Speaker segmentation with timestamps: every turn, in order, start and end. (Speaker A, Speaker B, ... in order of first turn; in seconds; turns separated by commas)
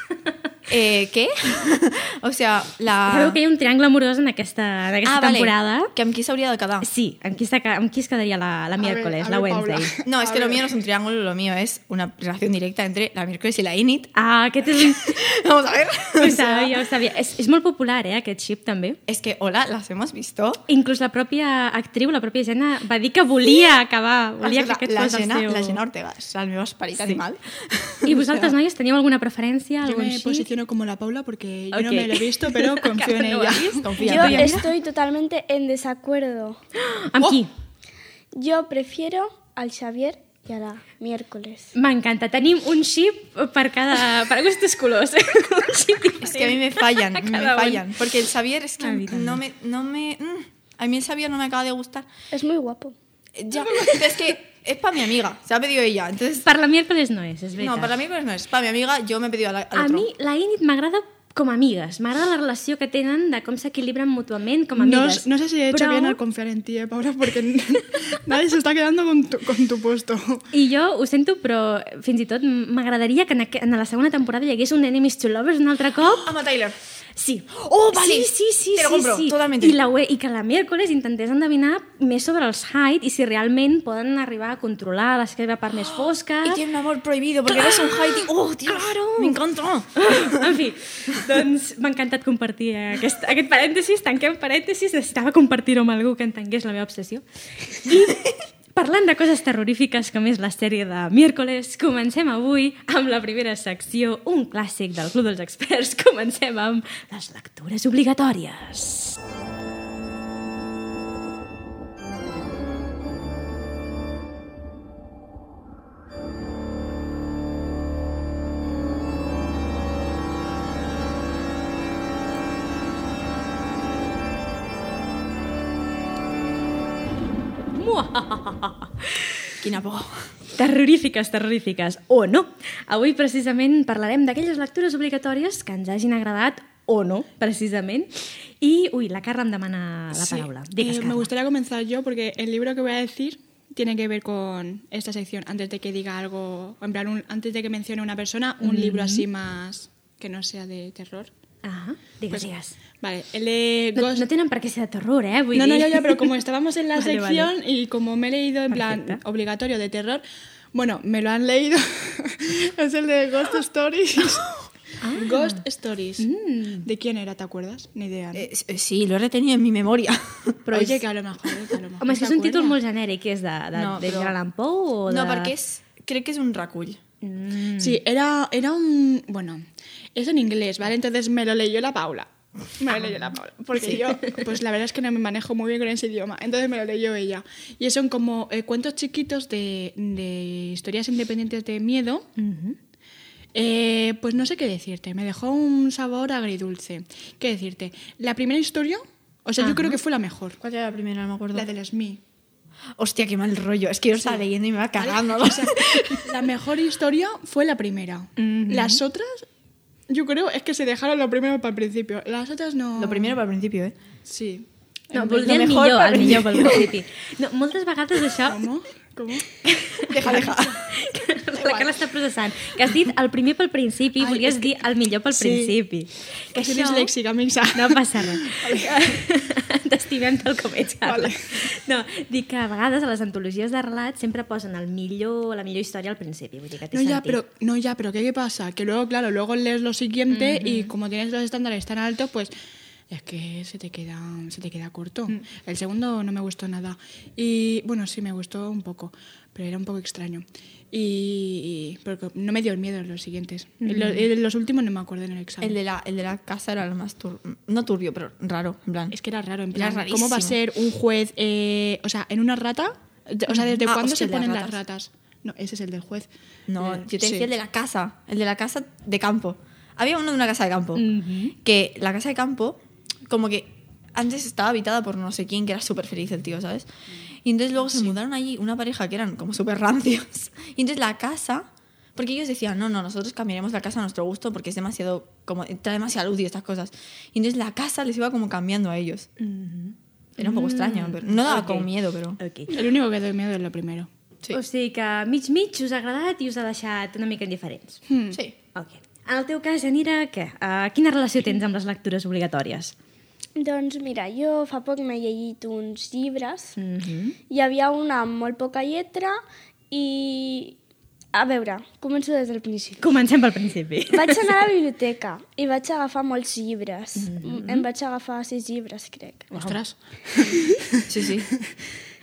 Speaker A: 0.7-3.4, Speaker B: 3.1-5.9, Speaker A: 5.0-6.9, Speaker B: 6.8-9.9, Speaker C: 8.8-10.7, Speaker A: 10.0-14.1, Speaker B: 14.2-15.0, Speaker A: 14.7-16.7, Speaker B: 16.2-19.0, Speaker A: 19.1-20.6, Speaker B: 20.7-25.8, Speaker A: 24.4-28.6, Speaker B: 28.0-30.5, Speaker C: 29.8-33.9, Speaker B: 31.7-34.7, Speaker A: 33.8-34.7, Speaker D: 34.0-36.6, Speaker B: 36.8-37.5, Speaker D: 38.3-41.7, Speaker B: 41.7-47.9, Speaker A: 46.2-52.1, Speaker B: 48.8-49.4, Speaker D: 52.3-52.9, Speaker A: 53.4-56.5, Speaker B: 56.4-57.9, Speaker A: 57.6-60.1, Speaker B: 59.8-66.2, Speaker C: 64.8-70.5, Speaker B: 70.5-76.3, Speaker A: 76.0-76.8, Speaker B: 77.2-86.6, Speaker A: 77.5-79.8, Speaker A: 85.9-90.5, Speaker B: 87.5-89.3, Speaker B: 90.0-109.2, Speaker A: 98.0-98.3, Speaker B: 127.7-129.5, Speaker A: 129.6-130.3, Speaker B: 130.6-141.3, Speaker C: 140.1-151.3, Speaker B: 148.6-149.3, Speaker B: 151.6-152.8, Speaker C: 153.0-154.3, Speaker B: 154.0-156.3, Speaker C: 155.5-164.6, Speaker B: 157.0-157.5, Speaker B: 158.7-159.2, Speaker B: 165.0-165.6, Speaker C: 165.1-166.3, Speaker B: 166.2-166.9, Speaker C: 166.8-168.5, Speaker A: 168.3-171.0, Speaker C: 170.7-172.8, Speaker B: 172.0-175.5, Speaker A: 173.7-174.3, Speaker A: 175.1-177.0, Speaker B: 177.2-178.0, Speaker C: 177.8-179.6, Speaker C: 180.2-192.3, Speaker B: 182.9-183.2, Speaker A: 183.8-184.1, Speaker B: 184.1-184.4, Speaker B: 192.4-192.8, Speaker C: 193.5-200.6, Speaker B: 199.6-200.0, Speaker A: 200.6-201.7, Speaker C: 201.5-202.2, Speaker A: 203.0-206.3, Speaker C: 205.0-209.5, Speaker B: 208.4-209.0, Speaker C: 210.1-213.4, Speaker A: 213.0-214.0, Speaker C: 214.3-214.7, Speaker B: 215.1-218.6, Speaker A: 215.1-216.9, Speaker C: 218.4-219.5, Speaker B: 219.7-227.1, Speaker A: 220.1-220.8, Speaker C: 220.3-220.6, Speaker C: 224.2-225.8, Speaker C: 226.5-229.2, Speaker B: 227.7-237.4, Speaker C: 231.0-231.7, Speaker C: 236.9-242.5, Speaker B: 240.3-240.9, Speaker C: 243.1-255.8, Speaker B: 253.8-254.3, Speaker A: 255.6-259.1, Speaker C: 259.1-266.3, Speaker A: 259.7-260.6, Speaker A: 263.8-264.8, Speaker A: 266.7-271.1, Speaker C: 266.8-267.5, Speaker B: 271.0-271.5, Speaker A: 271.6-276.9, Speaker A: 277.4-289.3, Speaker B: 289.4-292.8, Speaker A: 290.4-292.4, Speaker C: 292.7-294.1, Speaker B: 294.5-298.0, Speaker C: 298.1-298.4, Speaker B: 298.8-302.9, Speaker D: 303.6-306.8, Speaker B: 306.8-307.4, Speaker D: 307.5-309.4, Speaker D: 309.9-310.8, Speaker D: 311.3-313.1, Speaker B: 313.0-314.5, Speaker D: 314.1-319.5, Speaker B: 317.2-317.9, Speaker C: 319.5-321.1, Speaker A: 321.1-321.5